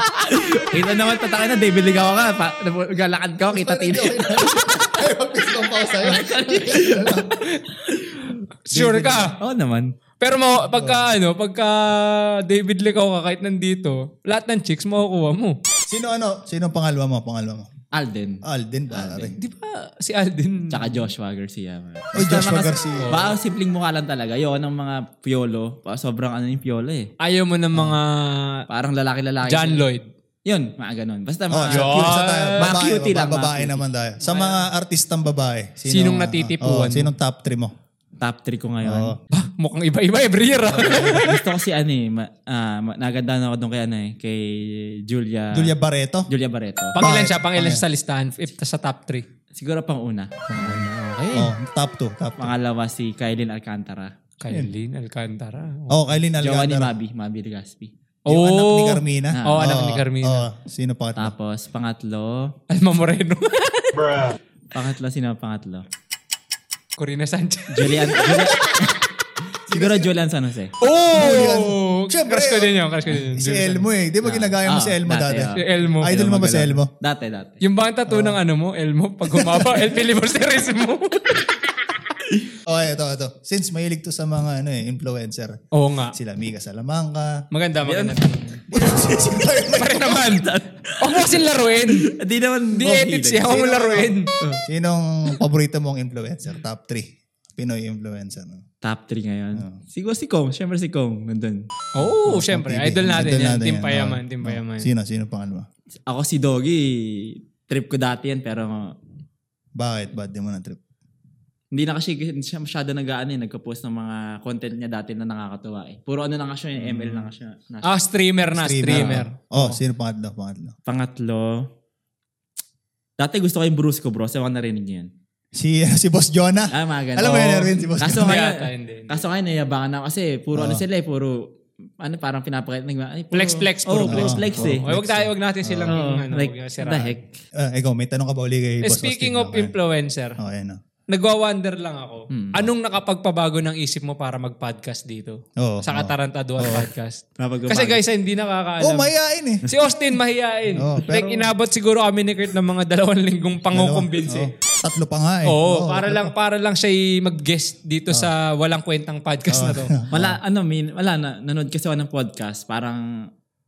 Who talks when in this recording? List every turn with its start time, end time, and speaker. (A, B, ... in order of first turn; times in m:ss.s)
0:00.1-0:05.0 A
0:03.5-0:07.4 B
0:06.0-0:07.3 A
0:07.4-0:09.4 C
0:07.9-0:09.9 A
0:08.8-0:09.1 B
0:10.2-0:15.6 C
0:10.7-0:11.1 B
0:15.9-0:17.7 B
0:17.9-0:19.4 A
0:18.4-0:19.4 B
0:19.4-0:21.0 C
0:20.7-0:27.1 A
0:22.1-0:23.2 B
0:23.0-0:23.3 C
0:27.2-0:28.7 C
0:28.7-0:29.9 A
0:29.4-0:30.1 C
0:30.4-0:34.7 A
0:31.5-0:37.7 B
0:31.7-0:32.7 C
0:35.8-0:37.1 C
0:38.2-0:39.2 A
0:38.8-0:39.2 B
0:39.3-0:41.4 C
0:40.7-0:41.3 B
0:41.1-0:45.7 A
0:45.5-0:46.3 B
0:46.3-0:47.0 A
0:47.0-0:49.3 C
0:47.0-0:47.8 B
0:49.5-0:50.5 A
0:50.5-0:52.5 B
0:50.6-0:51.5 C
0:52.4-0:54.1 A
0:54.4-0:56.1 C
0:55.9-0:56.9 B
0:56.4-0:57.9 A
0:58.2-1:00.5 C
0:58.3-1:01.3 B
0:59.3-0:59.7 A
1:01.2-1:02.6 A
1:02.7-1:04.4 C
1:04.7-1:05.8 A
1:07.0-1:09.0 C
1:07.7-1:09.0 A
1:09.7-1:10.7 A
1:09.7-1:10.1 B
1:10.8-1:13.9 C
1:11.1-1:16.9 B
1:14.2-1:15.6 A
1:15.6-1:16.3 C
1:16.2-1:17.6 A
1:17.6-1:21.5 C
1:18.1-1:18.4 B
1:19.3-1:20.0 B
1:22.7-1:25.6 B
1:25.7-1:26.2 C
1:26.1-1:27.4 B
1:27.5-1:28.6 C
1:27.8-1:28.2 A
1:28.7-1:30.4 B
1:29.7-1:30.5 C
1:30.2-1:34.6 A
1:31.0-1:32.1 C
1:32.7-1:34.4 C
1:33.4-1:38.6 B
1:38.8-1:41.6 A
1:42.0-1:44.9 C
1:42.0-1:45.7 B
1:46.1-1:48.9 A
1:49.8-1:50.8 B
1:51.7-1:57.9 A
1:56.8-1:57.3 B
1:57.8-1:59.8 C
1:58.5-2:00.8 B
1:58.9-1:59.2 A
2:00.9-2:01.6 A
2:03.2-2:05.1 A
2:05.5-2:08.4 B
2:06.7-2:11.4 A
2:07.2-2:09.2 C
2:10.6-2:10.8 B
2:12.0-2:14.9 A
2:13.3-2:17.1 C
2:14.0-2:16.0 B
2:15.9-2:17.4 A
2:17.6-2:19.8 B
2:18.8-2:20.4 C
2:20.4-2:20.8 B
2:21.1-2:29.1 C
2:22.3-2:22.7 A
2:25.6-2:26.9 B
2:27.4-2:28.0 A
2:28.8-2:29.7 B
2:29.7-2:34.6 C
2:30.8-2:31.5 B
2:33.7-2:36.3 B
2:35.5-2:40.0 C
2:39.5-2:40.4 B
2:40.1-2:43.1 A